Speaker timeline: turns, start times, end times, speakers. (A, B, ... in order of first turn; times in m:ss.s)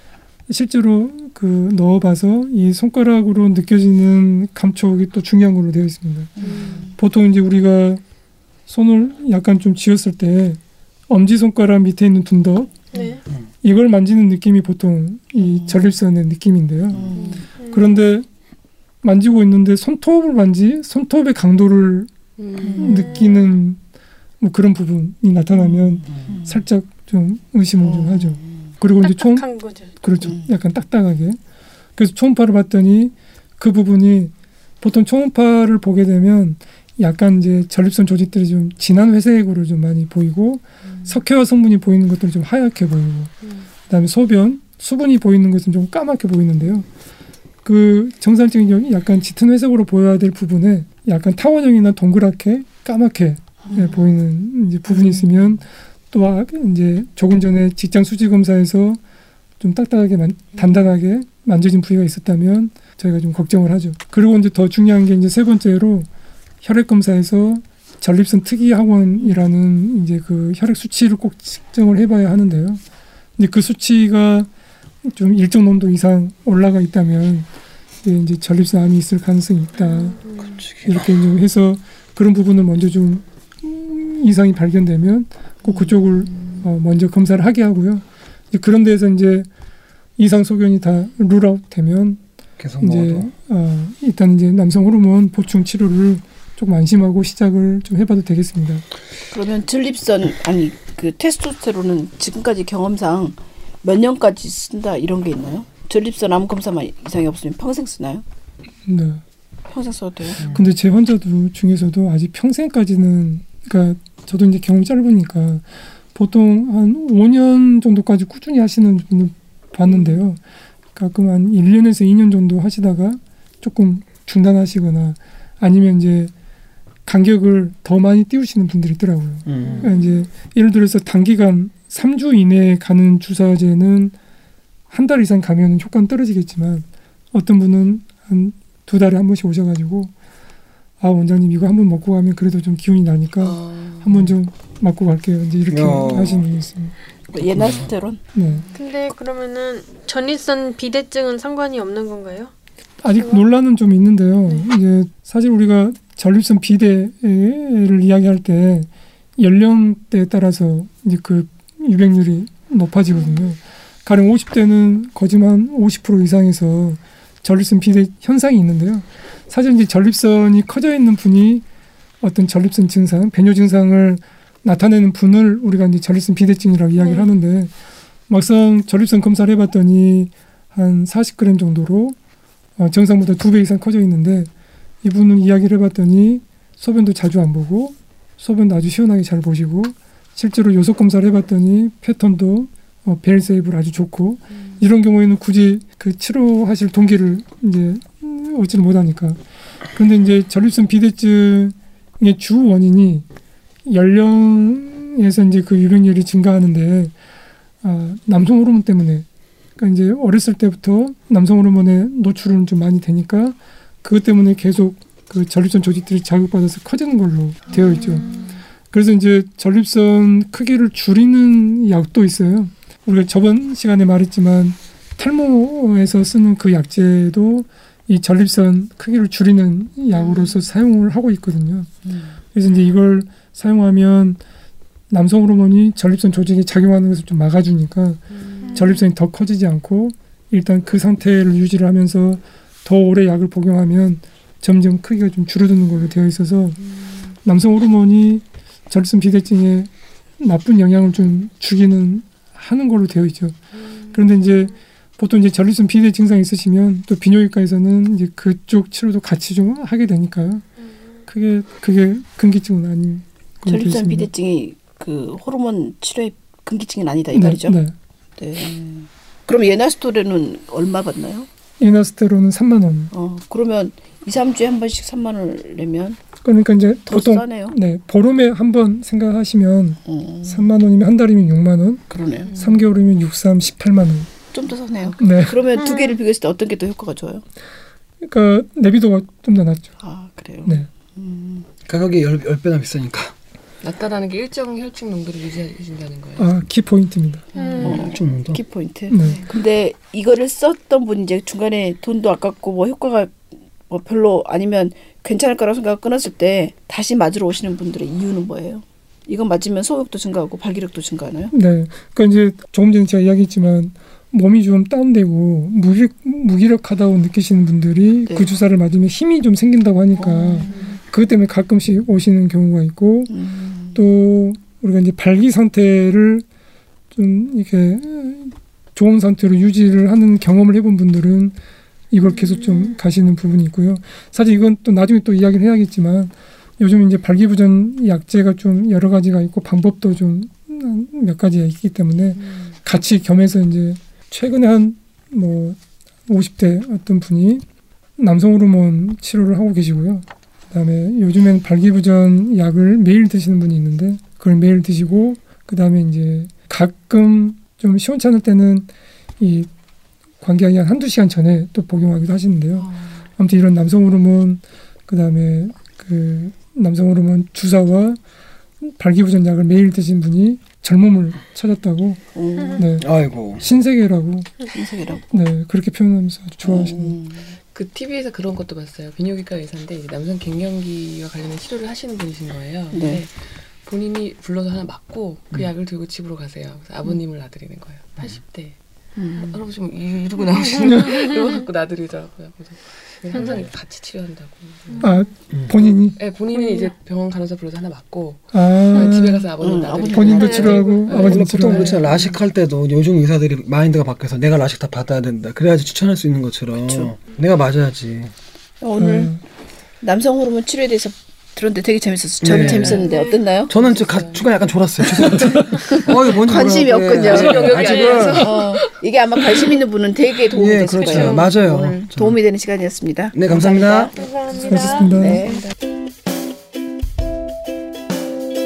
0:00.5-0:08.0 A
0:06.4-0:06.9 B
0:06.4-0:07.0 C
0:08.7-0:12.8 A
0:12.9-0:13.2 D
0:13.6-0:18.3 A
0:16.9-0:17.4 B
0:17.1-0:17.5 C
0:17.6-0:17.9 D
0:19.0-0:22.1 A
0:22.4-0:23.2 C
0:22.8-0:23.8 A
0:22.8-0:23.6 D
0:24.4-0:31.4 A
0:26.0-0:26.6 B
0:27.8-0:28.6 B
0:29.0-0:29.9 D
0:32.0-0:43.3 A
0:40.9-0:41.2 C
0:43.9-0:46.9 A
0:47.6-0:59.0 A
0:59.6-1:06.1 A
1:06.6-1:12.8 A
1:13.4-1:14.5 A
1:15.0-1:17.5 A
1:18.0-1:20.2 A
1:19.9-1:20.6 C
1:20.5-1:21.2 E
1:20.8-1:29.5 A
1:25.7-1:26.7 C
1:30.2-1:32.2 A
1:32.6-1:33.3 E
1:32.8-1:38.8 A
1:39.3-1:48.2 B
1:48.9-1:49.2 A
1:49.7-1:50.4 B
1:50.4-1:50.7 E
1:50.5-2:00.4 A
1:59.9-2:00.2 C
2:01.0-2:06.3 A
2:07.1-2:14.2 A
2:09.5-2:09.9 E
2:09.7-2:10.0 C
2:14.9-2:20.1 A
2:21.0-2:27.0 A
2:23.4-2:24.2 C
2:25.7-2:26.5 E
2:27.3-2:27.9 E
2:27.3-2:28.2 B
2:28.3-2:28.7 A
2:28.7-2:32.5 D
2:33.0-2:51.6 A
2:33.2-2:33.4 D
2:43.1-2:43.5 D
2:52.2-2:57.7 A
2:57.0-2:57.3 D
2:58.3-3:02.2 A
3:02.8-3:04.5 A
3:05.0-3:19.4 A
3:19.9-3:23.3 A
3:23.9-3:27.1 A
3:27.8-3:29.3 A
3:29.8-3:38.3 A
3:37.8-3:38.5 C
3:38.9-3:52.0 A
3:52.1-3:52.4 B
3:52.5-3:54.4 A
3:55.1-4:06.8 A
3:58.3-3:59.0 C
4:07.4-4:13.6 A
4:14.1-4:20.6 A
4:21.3-4:24.3 A
4:23.6-4:27.8 B
4:27.3-4:28.0 A
4:28.4-4:31.5 B
4:31.8-4:33.1 A
4:33.1-4:36.2 B
4:36.4-4:44.3 A
4:37.1-4:37.8 B
4:40.1-4:40.7 B
4:42.1-4:42.5 B
4:44.5-4:47.4 B
4:45.2-4:45.6 A
4:45.8-4:46.1 E
4:48.2-4:49.9 A
4:50.0-4:51.7 B
4:51.9-4:53.3 E
4:53.8-4:56.5 C
4:56.4-4:57.4 A
4:57.6-4:58.1 D
4:57.6-4:58.0 C
4:57.8-4:58.6 E
4:57.8-5:11.5 B
4:59.1-4:59.4 A
5:11.5-5:23.4 A
5:20.2-5:21.0 B
5:20.7-5:21.0 C
5:23.3-5:24.0 B
5:23.9-5:26.5 A
5:27.1-5:31.6 A
5:32.1-5:47.6 A
5:42.4-5:42.8 C
5:48.2-5:59.7 A
6:00.4-6:08.2 A
6:02.8-6:03.2 C
6:08.8-6:12.2 A
6:12.4-6:12.8 B
6:12.8-6:13.1 A
6:13.0-6:13.6 E
6:13.6-6:14.5 A
6:14.7-6:15.2 B
6:15.3-6:17.2 A
6:16.6-6:17.6 B
6:17.7-6:28.8 C
6:22.9-6:23.2 B
6:29.2-6:29.6 B
6:29.4-6:35.2 C
6:33.4-6:33.6 D
6:34.9-6:35.2 D
6:35.0-6:36.2 A
6:35.5-6:35.8 E
6:36.2-6:42.3 C
6:36.5-6:36.9 D
6:38.5-6:39.5 A
6:39.6-6:40.7 B
6:40.1-6:42.0 A
6:40.4-6:41.1 D
6:41.1-6:48.3 E
6:46.8-6:47.2 B
6:48.8-6:49.3 B
6:49.0-6:49.4 A
6:50.0-6:53.7 B
6:52.4-6:53.0 E
6:52.6-6:53.1 C
6:52.8-6:53.4 D
6:53.7-6:54.8 C
6:53.7-6:58.6 E
6:55.7-6:57.7 B
6:57.1-6:59.0 C
6:58.4-7:04.1 B
7:00.5-7:02.4 E
7:01.0-7:01.4 D
7:01.1-7:01.5 C
7:03.3-7:04.1 E
7:04.2-7:05.2 D
7:04.5-7:05.5 A
7:04.6-7:05.6 C
7:05.2-7:05.6 B